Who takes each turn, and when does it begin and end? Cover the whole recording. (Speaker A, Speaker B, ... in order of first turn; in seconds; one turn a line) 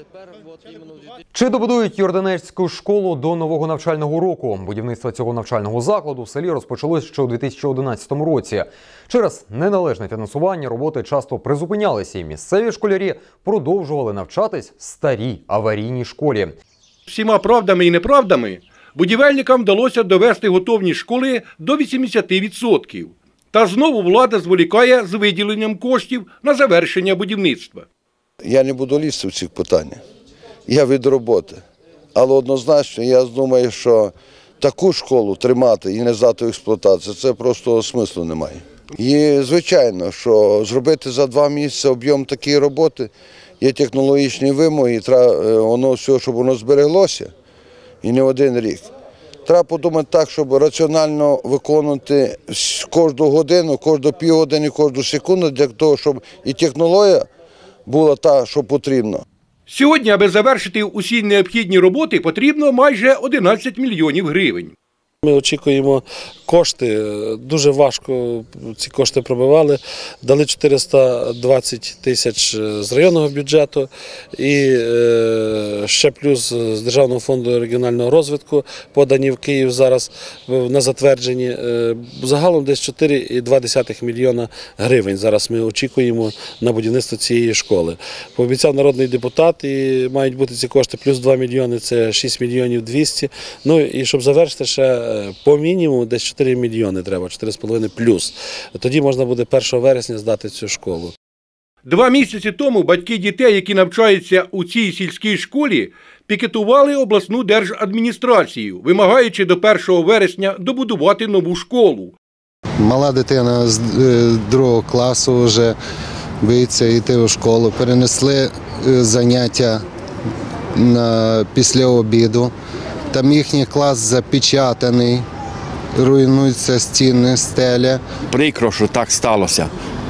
Speaker A: 1.3-16.5
Speaker B: 17.1-27.8
Speaker C: 28.4-30.0
Speaker C: 30.7-31.6
Speaker C: 32.1-47.3
Speaker C: 48.0-48.9
Speaker C: 49.5-57.2
Speaker C: 57.9-59.2
Speaker B: 59.7-64.7
Speaker D: 65.2-101.1
Speaker B: 101.8-112.1
Speaker E: 112.8-115.8
Speaker E: 116.4-119.8
Speaker E: 120.7-122.5
Speaker E: 123.1-125.2
Speaker E: 126.0-128.0